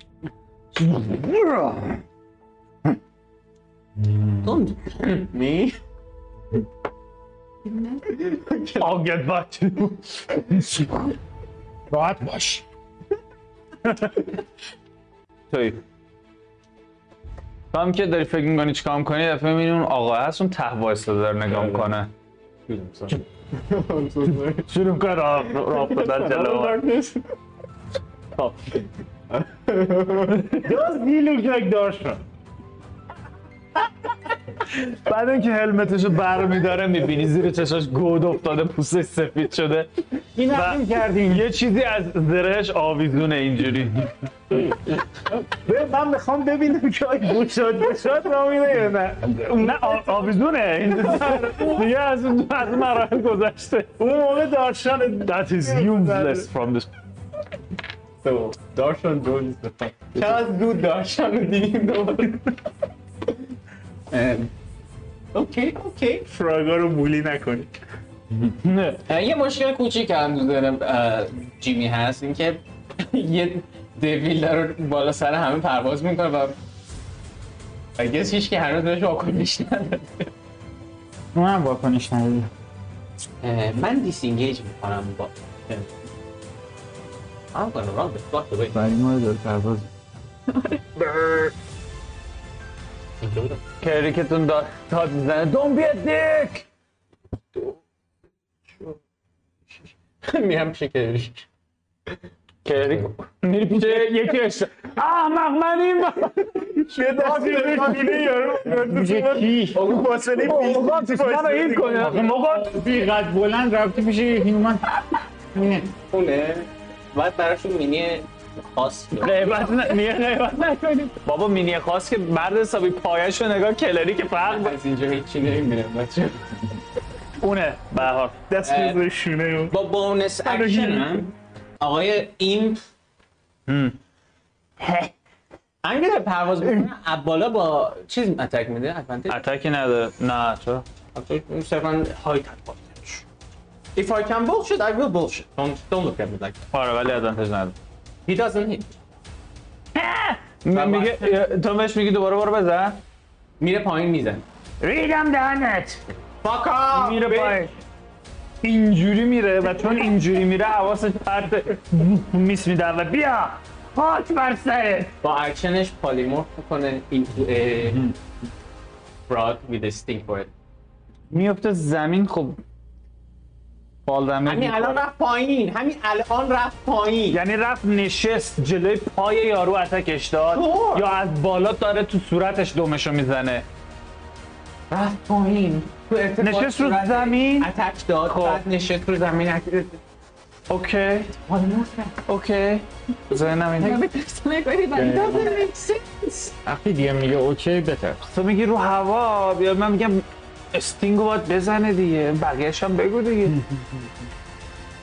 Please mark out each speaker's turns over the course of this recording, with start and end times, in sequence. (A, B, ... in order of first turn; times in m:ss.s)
0:00.7-0:02.0 A
0:04.0-0:04.6 B
0:04.4-0:05.8 C
0:07.7-0:08.0 D
0:08.1-0:08.9 C
0:08.8-0:11.1 A
0:11.9-0:12.6 B
0:15.5-0:15.8 A
0:17.7-0:22.1 A
0:21.5-0:21.9 C
0:22.7-0:24.7 C
0:24.6-0:26.8 A
0:25.5-0:27.2 C
0:28.4-0:28.8 A
0:29.3-0:30.6 C
0:30.6-0:32.2 E
0:34.8-0:39.9 A
0:40.4-0:41.5 B
0:40.5-0:44.0 A
0:45.6-0:50.4 E
0:49.4-0:54.0 A
0:51.0-0:51.8 E
0:54.0-0:56.5 E
0:55.2-0:56.9 A
0:58.2-1:02.5 C
1:04.1-1:04.5 C
1:05.3-1:06.3 C
1:06.3-1:07.7 E
1:08.6-1:09.0 A
1:09.1-1:16.6 C
1:18.0-1:20.3 C
1:21.3-1:22.5 B
1:23.4-1:25.9 C
1:27.5-1:28.8 C
1:28.7-1:29.9 B
1:30.5-1:30.8 D
1:31.0-1:31.5 A
1:33.2-1:33.6 C
1:33.8-1:36.7 A
1:40.2-1:41.4 C
1:42.6-1:46.5 A
1:46.6-1:52.2 E
1:47.1-1:48.5 C
1:48.8-1:49.9 B
1:49.7-1:50.3 C
1:50.4-1:52.8 A
1:52.0-1:54.9 B
1:55.5-1:55.9 B
1:55.9-1:59.9 C
1:59.2-2:04.7 A
2:04.4-2:06.6 C
2:07.4-2:08.4 A
2:08.5-2:09.8 E
2:08.6-2:09.0 C
2:09.7-2:12.8 C
2:10.4-2:11.2 E
2:13.7-2:14.0 A
2:14.8-2:15.1 A
2:15.8-2:19.4 C
2:19.3-2:20.8 A
2:21.2-2:23.2 C
2:24.0-2:26.7 C
2:26.7-2:27.8 A
2:28.3-2:28.9 C
2:30.0-2:33.0 A
2:30.7-2:31.4 C
2:33.6-2:34.4 C
2:34.8-2:36.0 A
2:36.4-2:37.6 C
2:36.9-2:37.8 A
2:38.6-2:45.2 A
2:45.2-2:48.1 C
2:49.3-2:50.5 C
2:51.3-2:52.6 A
2:54.1-2:55.0 A
2:54.5-2:57.4 C
2:57.3-3:03.7 A
3:00.5-3:01.1 C
3:04.9-3:10.0 C
3:06.4-3:07.7 A
3:08.2-3:08.6 A
3:10.7-3:11.4 A
3:11.4-3:12.2 C
3:12.2-3:14.0 A
3:13.8-3:15.7 D
3:14.9-3:15.5 B
3:15.1-3:16.6 C
3:16.6-3:18.2 B
3:18.2-3:23.6 A